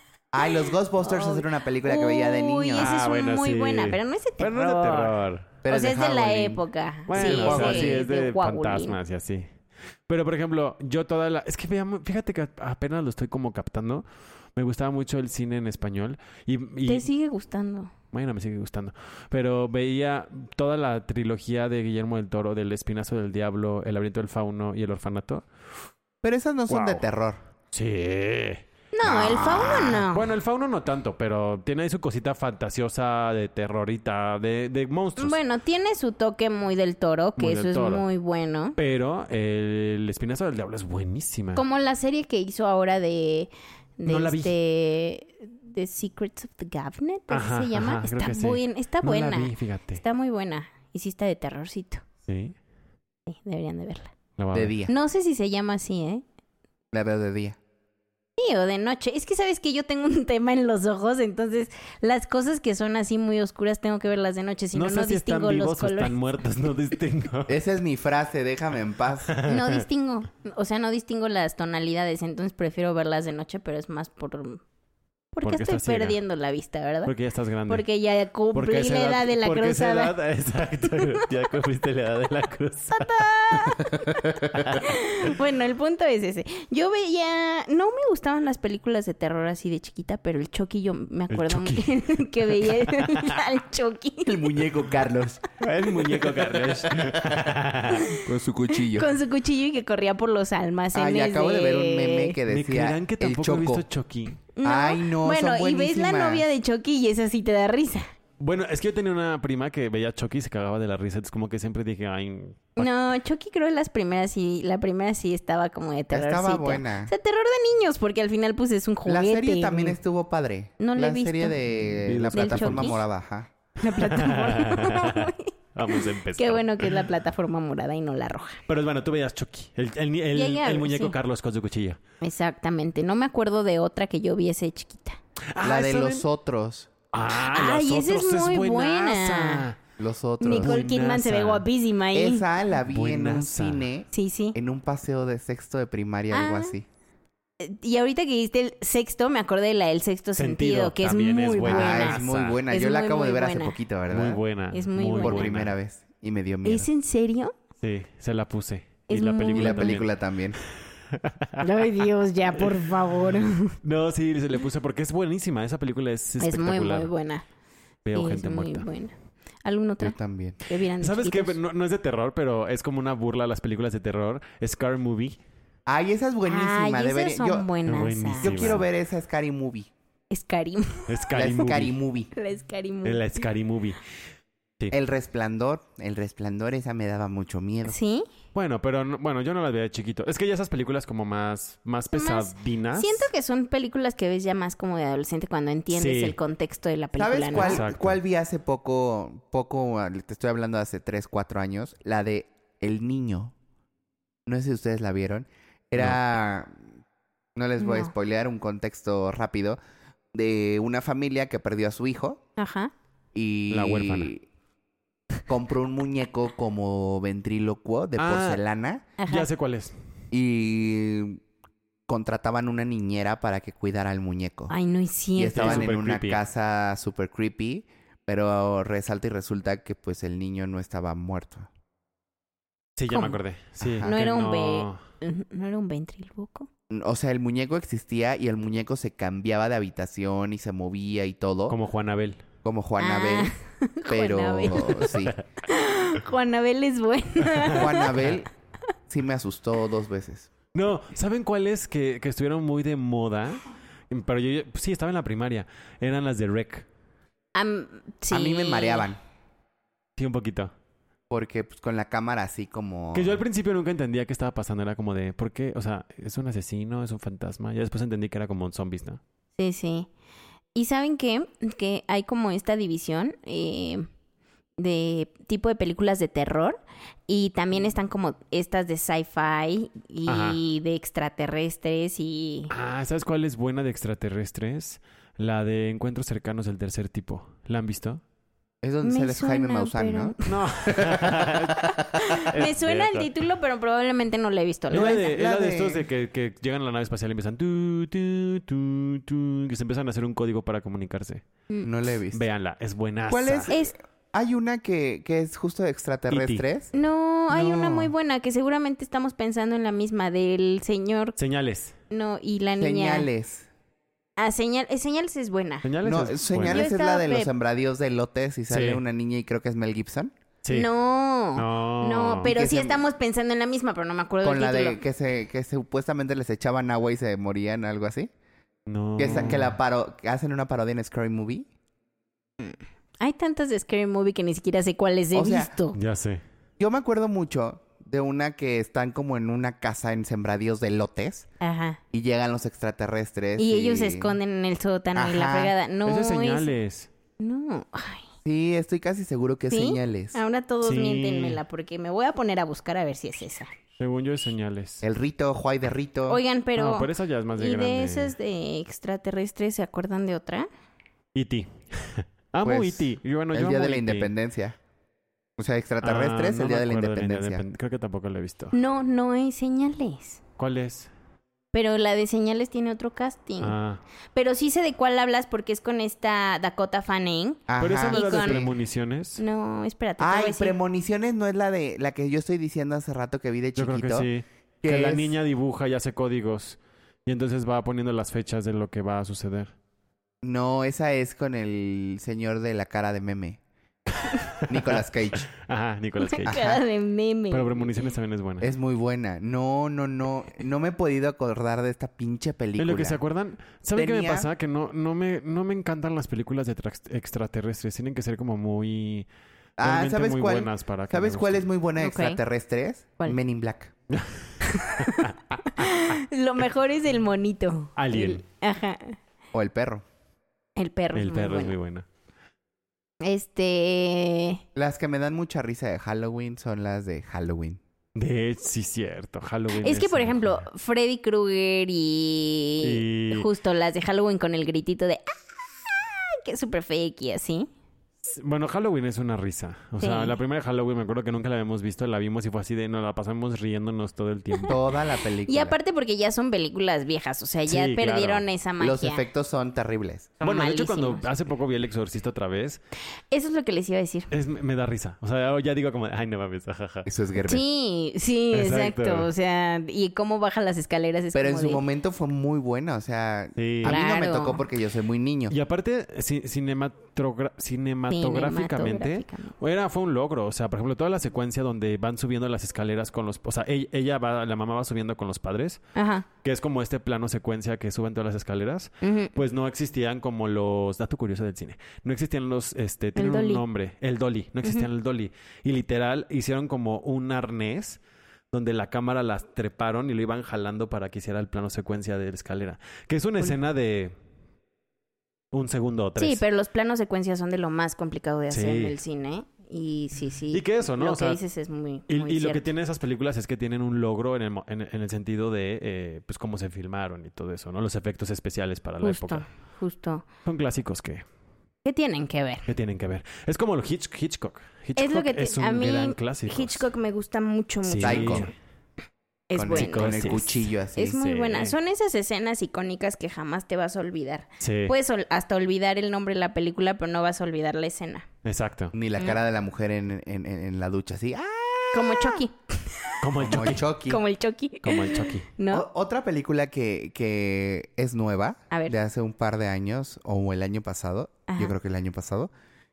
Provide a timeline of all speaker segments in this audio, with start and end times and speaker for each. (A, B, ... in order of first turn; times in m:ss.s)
0:00.3-0:02.9 A
0:01.0-0:05.2 B
0:02.8-0:05.5 C
0:05.6-0:08.0 A
0:05.7-0:09.0 B
0:07.1-0:09.5 C
0:10.1-0:14.0 C
0:14.6-0:17.1 C
0:16.9-0:17.9 B
0:18.1-0:25.5 C
0:26.2-0:27.4 A
0:26.7-0:27.0 C
0:27.7-0:35.4 C
0:28.9-0:30.3 B
0:35.2-0:38.8 B
0:37.4-0:38.0 C
0:38.8-0:41.6 C
0:41.5-0:52.0 B
0:44.1-0:44.5 C
0:47.3-0:50.0 C
0:52.3-0:52.5 C
0:53.3-0:54.1 B
0:54.4-0:54.8 C
0:54.5-0:54.9 A
0:54.9-0:56.2 B
0:56.9-0:57.6 A
0:58.4-1:06.1 B
1:04.7-1:07.6 C
1:07.5-1:09.3 A
1:09.3-1:09.8 C
1:09.4-1:14.6 B
1:15.3-1:17.1 B
1:15.4-1:16.2 C
1:17.0-1:17.8 C
1:17.7-1:20.1 B
1:18.5-1:23.9 C
1:22.9-1:24.1 B
1:24.5-1:24.8 C
1:24.8-1:34.4 B
1:31.3-1:33.3 C
1:34.2-1:35.4 A
1:35.6-1:38.1 C
1:36.0-1:37.5 A
1:37.9-1:38.2 B
1:38.2-1:39.1 A
1:38.9-1:42.4 B
1:40.9-1:43.8 A
1:42.5-1:44.4 C
1:44.6-1:48.1 B
1:44.6-1:46.5 A
1:48.4-1:52.9 C
1:52.8-2:00.0 B
1:56.1-1:57.1 A
1:59.1-2:03.5 A
2:00.8-2:01.6 B
2:02.0-2:03.0 C
2:02.3-2:03.0 B
2:03.8-2:08.6 B
2:03.9-2:07.1 C
2:08.7-2:12.0 C
2:10.3-2:11.1 B
2:12.2-2:15.2 B
2:15.5-2:16.2 C
2:15.6-2:16.9 A
2:17.1-2:19.8 C
2:17.3-2:19.6 B
2:20.0-2:20.8 A
2:20.4-2:22.4 B
2:20.5-2:21.6 C
2:22.1-2:26.9 A
2:22.9-2:23.9 C
2:24.1-2:24.6 B
2:26.3-2:26.8 B
2:27.6-2:33.8 B
2:30.4-2:32.6 C
2:31.6-2:34.4 A
2:34.1-2:35.7 C
2:34.7-2:35.5 B
2:35.2-2:36.9 A
2:36.6-2:37.5 B
2:37.8-2:41.6 C
2:39.1-2:40.0 B
2:39.5-2:40.6 A
2:41.6-2:43.8 B
2:42.6-2:47.1 C
2:46.4-2:47.4 B
2:48.0-2:48.9 C
2:48.1-2:51.6 B
2:50.0-2:50.6 A
2:51.0-2:55.4 C
2:55.9-2:57.7 A
2:56.5-2:58.8 B
2:57.9-2:58.8 C
2:58.4-2:59.9 A
3:00.3-3:01.1 B
3:01.1-3:02.0 C
3:01.3-3:02.3 A
3:02.4-3:03.4 B
3:03.0-3:04.0 C
3:04.9-3:08.0 A
3:07.8-3:08.3 B
3:08.5-3:13.3 C
3:12.1-3:17.8 B
3:15.9-3:16.4 C
3:17.2-3:23.5 A
3:17.5-3:18.2 C
3:24.5-3:26.8 A
3:27.6-3:29.8 A
3:27.8-3:28.1 B
3:30.3-3:32.4 A
3:32.6-3:32.9 B
3:33.3-3:34.4 A
3:33.7-3:34.3 C
3:35.5-3:39.1 A
3:38.2-3:38.6 C
3:39.2-3:39.5 B
3:39.3-3:40.0 C
3:40.3-3:41.4 A
3:42.1-3:44.7 A
3:44.7-3:45.9 B
3:45.4-3:51.7 A
3:45.5-3:46.4 C
3:53.0-3:55.0 C
3:53.1-3:53.4 B
3:53.8-3:54.1 A
3:54.0-3:56.7 B
3:56.9-4:01.8 A
4:01.7-4:02.4 C
4:02.6-4:03.5 A
4:03.0-4:05.2 B
4:04.1-4:05.4 A
4:05.0-4:05.4 C
4:05.7-4:08.1 B
4:07.6-4:08.3 C
4:07.7-4:08.5 A
4:09.1-4:10.5 A
4:10.7-4:16.9 C
4:17.5-4:19.1 B
4:18.3-4:19.2 A
4:20.2-4:20.7 C
4:21.3-4:23.4 A
4:23.1-4:29.2 C
4:29.6-4:30.1 B
4:30.8-4:34.0 B
4:34.8-4:42.7 B
4:40.2-4:40.6 C
4:42.7-4:48.2 C
4:48.8-4:52.0 A
4:49.0-4:50.5 B
4:50.5-4:53.3 C
4:52.1-4:55.3 B
4:54.9-4:56.0 A
4:54.9-5:01.4 C
5:01.8-5:02.4 A
5:02.3-5:03.7 C
5:03.3-5:06.9 A
5:03.7-5:04.0 B
5:06.3-5:06.6 C
5:06.9-5:11.4 B
5:07.5-5:08.1 C
5:11.4-5:12.0 C
5:12.1-5:13.3 B
5:12.8-5:13.7 A
5:14.4-5:15.9 B
5:15.8-5:16.9 C
5:16.0-5:20.3 A
5:16.6-5:17.5 B
5:18.7-5:19.0 C
5:20.6-5:20.9 C
5:20.7-5:25.0 B
5:21.6-5:22.5 C
5:22.4-5:23.0 A
5:24.4-5:28.3 A
5:28.9-5:29.8 C
5:29.2-5:31.7 A
5:32.6-5:36.0 B
5:35.3-5:35.7 A
5:35.9-5:36.4 C
5:36.8-5:41.4 A
5:41.6-5:42.0 B
5:42.1-5:44.4 A
5:43.6-5:46.7 B
5:45.1-5:45.7 A
5:46.1-5:47.1 C
5:47.4-5:48.3 B
5:48.4-5:50.4 A
5:49.7-5:53.7 B
5:50.8-5:51.6 C
5:54.0-5:55.0 C
5:55.0-5:56.4 A
5:56.3-6:00.7 B
5:56.8-5:58.4 C
6:01.4-6:04.3 C
6:02.6-6:04.8 A
6:05.6-6:07.6 A
6:06.0-6:08.8 C
6:08.7-6:10.4 B
6:10.6-6:11.1 C
6:11.7-6:13.8 B
6:13.6-6:14.0 C
6:14.4-6:18.7 B
6:17.7-6:18.7 A
6:17.8-6:19.4 C
6:19.4-6:20.8 B
6:20.2-6:24.3 A
6:23.8-6:29.7 C
6:24.8-6:25.3 A
6:30.4-6:33.6 A
6:34.1-6:36.8 C
6:34.7-6:35.5 A
6:36.2-6:38.1 B
6:37.5-6:38.7 C
6:38.6-6:43.2 A
6:42.8-6:49.3 C
6:43.9-6:44.5 A
6:49.8-6:51.7 C
6:49.8-6:53.9 A
6:52.0-6:52.4 B
6:54.1-6:55.9 C
6:54.6-6:59.2 B
6:58.0-6:58.4 C
6:59.5-7:00.0 A
7:00.8-7:01.8 B
7:01.1-7:02.0 C
7:03.2-7:04.6 B
7:04.8-7:07.8 A
7:08.1-7:10.5 C
7:09.7-7:17.7 B
7:12.8-7:13.5 C
7:18.2-7:24.8 C
7:20.0-7:20.4 B
7:24.7-7:25.8 A
7:25.5-7:29.2 B
7:27.7-7:28.4 C
7:28.8-7:30.4 A
7:30.4-7:31.2 B
7:30.4-7:32.8 C
7:33.3-7:34.3 B
7:34.3-7:37.1 C
7:37.1-7:37.6 A
7:37.4-7:41.8 B
7:38.5-7:39.3 C
7:41.4-7:45.6 A
7:43.6-7:44.0 C
7:43.9-7:44.6 B
7:45.5-7:55.8 C
7:48.1-7:49.5 B
7:56.0-7:56.3 B
7:56.4-8:08.0 C
7:59.0-7:59.3 B
8:03.2-8:03.6 B
8:08.5-8:14.1 C
8:15.5-8:16.4 C
8:16.2-8:22.7 B
8:18.5-8:19.0 C
8:20.5-8:21.4 C
8:22.1-8:29.4 C
8:29.0-8:30.2 B
8:30.4-8:31.2 C
8:31.8-8:32.7 B
8:32.7-8:36.9 C
8:35.0-8:38.5 B
8:37.9-8:38.5 C
8:38.0-8:38.5 A
8:39.5-8:40.4 B
8:39.6-8:41.2 A
8:39.7-8:41.8 C
8:41.0-8:48.3 B
8:44.6-8:44.9 C
8:48.4-8:48.9 C
8:48.9-8:52.4 A
8:51.9-8:53.2 B
8:53.2-8:53.9 C
8:53.4-8:54.2 A
8:54.1-8:55.9 B
8:54.8-8:55.5 C
8:55.7-9:02.5 A
9:01.5-9:01.8 B